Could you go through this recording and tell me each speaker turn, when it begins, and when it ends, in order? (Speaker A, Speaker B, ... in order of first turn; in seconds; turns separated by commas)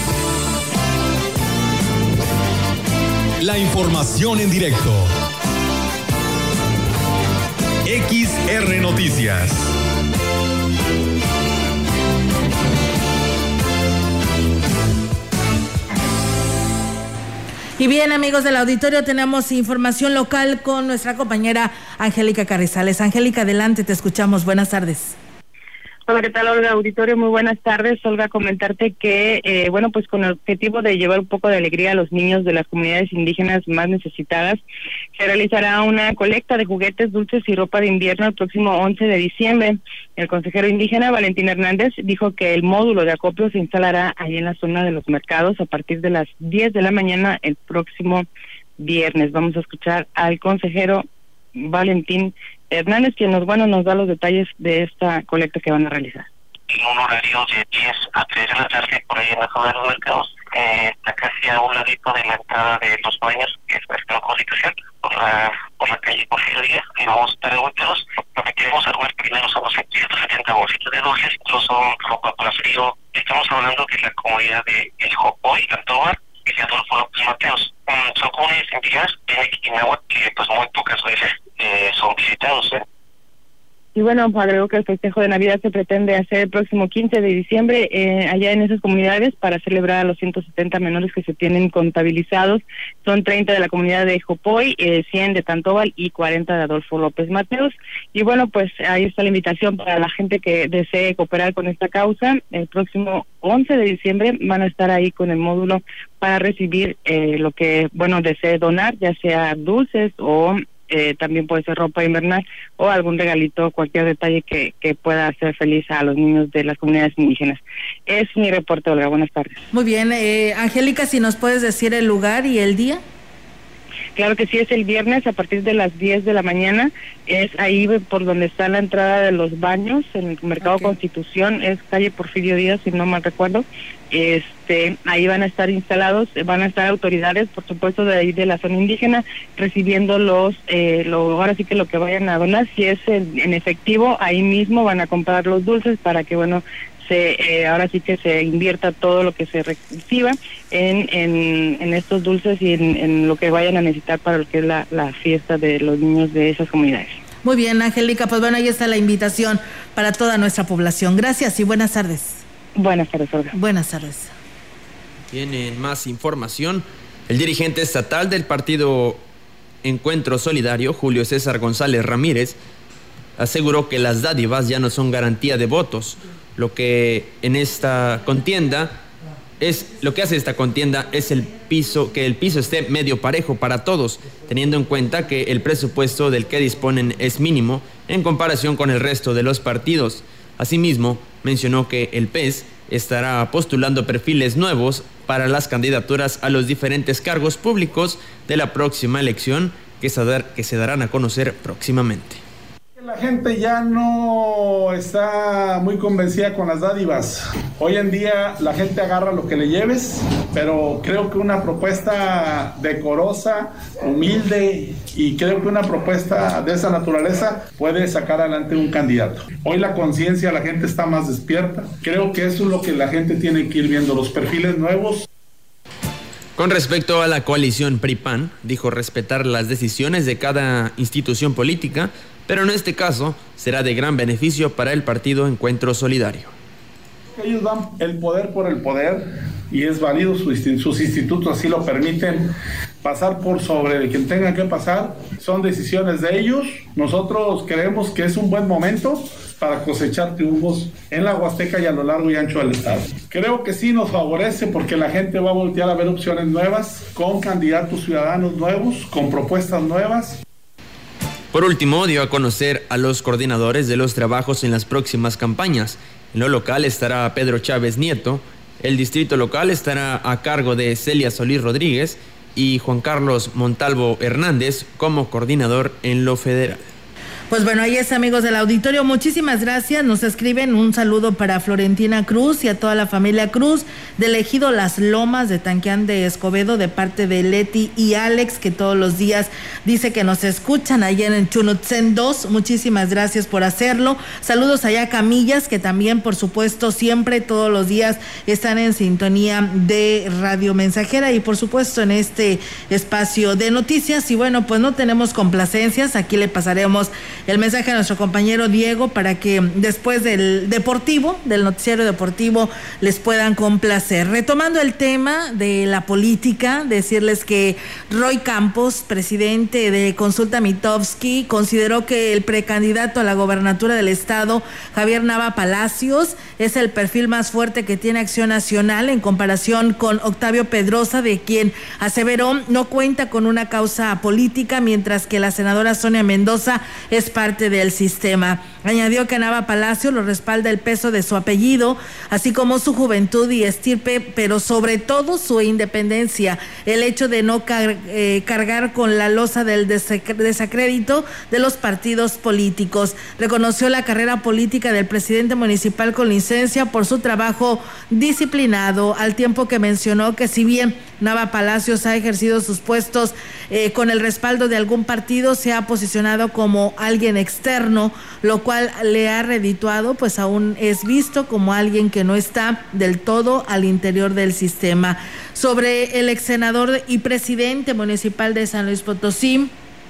Speaker A: 3.4-5.1, Speaker A: 7.8-9.7, Speaker B: 17.8-25.1, Speaker C: 26.1-34.6, Speaker C: 35.1-48.2, Speaker C: 48.8-51.0, Speaker C: 51.5-56.3, Speaker D: 56.7-82.8, Speaker C: 84.0-119.6, Speaker B: 119.7-123.0, Speaker C: 124.2-157.2, Speaker B: 157.4-162.4, Speaker C: 162.8-163.5, Speaker B: 163.5-164.3, Speaker E: 165.3-169.2, Speaker E: 169.8-172.6, Speaker E: 173.4-178.9, Speaker E: 179.6-202.4, Speaker F: 203.0-225.2, Speaker E: 226.6-236.5, Speaker F: 237.4-242.5, Speaker F: 243.0-260.4, Speaker E: 261.5-276.9, Speaker B: 277.5-379.7